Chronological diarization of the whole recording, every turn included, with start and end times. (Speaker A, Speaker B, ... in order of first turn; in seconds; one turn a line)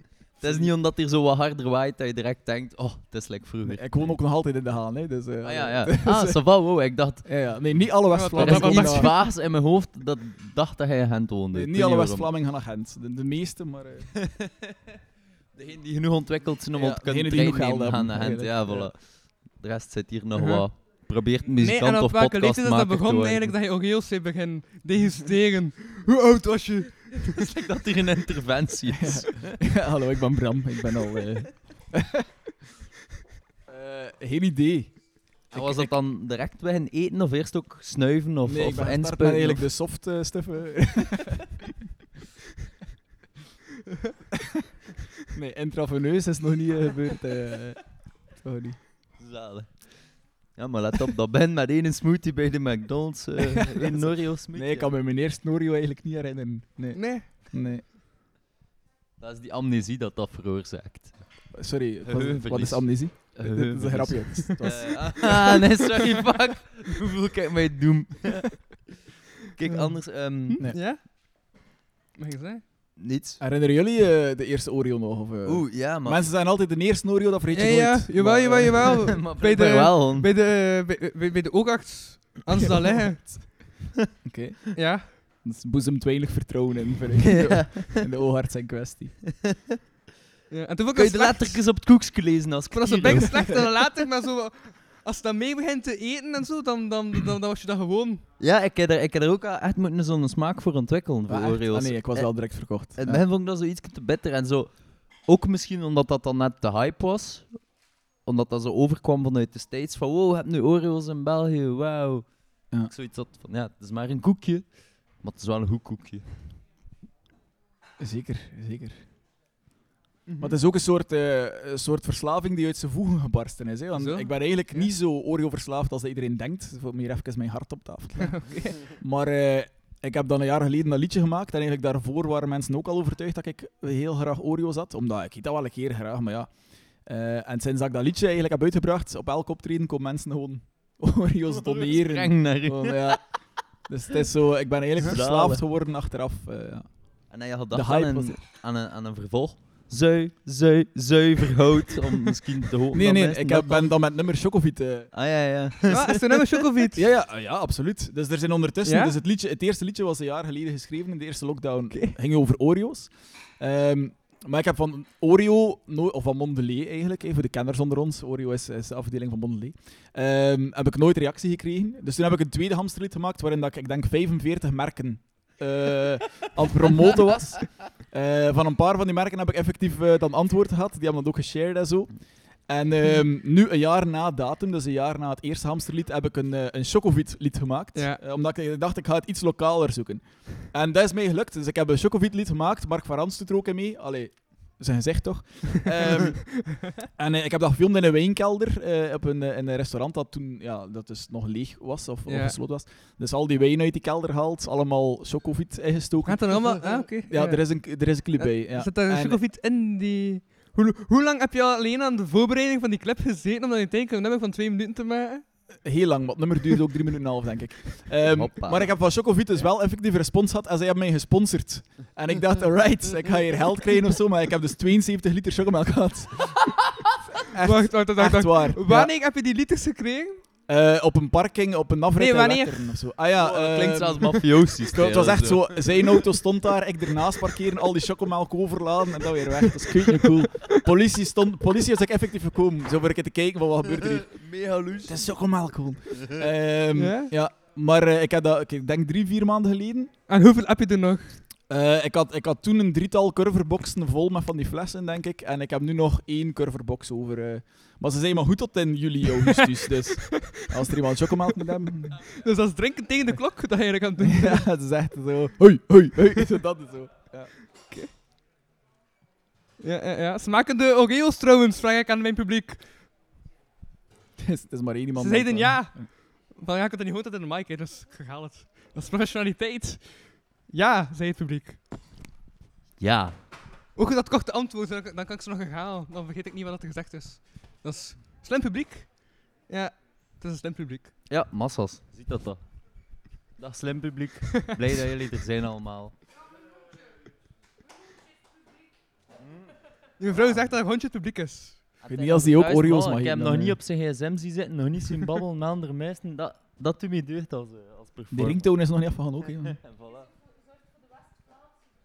Speaker A: 0.4-4.1
Speaker B: 0.4-0.7
Speaker B: 3.6-6.6
Speaker A: 5.4-7.3
Speaker B: 7.2-9.1
Speaker C: 8.1-9.2
Speaker A: 8.3-12.3
Speaker B: 11.5-14.1
Speaker A: 14.4-14.7
Speaker A: 15.5-23.5
Speaker B: 16.7-18.9
Speaker C: 20.4-21.0
Speaker C: 21.6-27.4
Speaker A: 27.3-29.5
Speaker B: 29.0-32.2
Speaker B: 33.7-35.9
Speaker A: 35.5-39.7
Speaker B: 38.4-41.5
Speaker B: 45.3-48.8
Speaker A: 49.2-54.9
Speaker B: 53.4-57.8
Speaker C: 56.9-57.3
Speaker A: 59.2-68.8
Speaker B: 61.5-65.6
Speaker A: 69.5-70.6
Speaker C: 69.7-72.6
Speaker A: 73.0-73.4
Speaker B: 73.4-79.2
Speaker A: 75.5-76.3
Speaker C: 77.5-83.6
Speaker A: 78.8-80.3
Speaker B: 84.2-89.2
Speaker C: 84.7-85.1
Speaker A: 87.3-88.0
Speaker C: 90.5-91.7
Speaker A: 90.9-93.7
Speaker C: 92.7-98.2
Speaker A: 98.4-116.5
Speaker B: 101.3-103.2
Speaker B: 118.0-119.0
Speaker C: 120.2-120.5
Speaker B: 120.4-148.4
Speaker C: 123.9-124.9
Speaker C: 128.2-128.9
Speaker A: 141.5-143.5
Speaker A: 144.9-145.6
Speaker A: 147.3-153.9
Speaker B: 152.9-155.1
Speaker A: 155.1-156.3
Speaker C: 155.9-157.0
Speaker B: 156.9-209.4
Speaker C: 158.8-159.1
Speaker C: 187.9-188.2
Speaker C: 202.3-202.6
Speaker C: 206.2-215.6
Speaker B: 215.8-226.8
Speaker A: 218.3-219.0
Speaker B: 227.4-229.1
Speaker C: 227.6-230.4
Speaker B: 230.7-250.1
Speaker C: 232.2-233.1
Speaker A: 233.3-236.2
Speaker A: 244.0-245.4
Speaker C: 246.9-247.3
Speaker C: 250.3-251.4
Speaker B: 251.7-262.3
Speaker C: 260.3-260.6
Speaker C: 262.3-264.7
Speaker B: 264.2-267.9
Speaker C: 269.8-272.8
Speaker B: 274.4-276.1
Speaker C: 275.1-281.8
Speaker A: 283.0-283.4
Speaker C: 283.9-291.1
Speaker A: 291.3-293.0
Speaker A: 293.5-296.2
Speaker A: 299.4-299.7
Speaker C: 300.2-301.8
Speaker A: 302.0-308.7
Speaker B: 302.1-303.8
Speaker B: 308.3-309.8
Speaker A: 309.8-310.3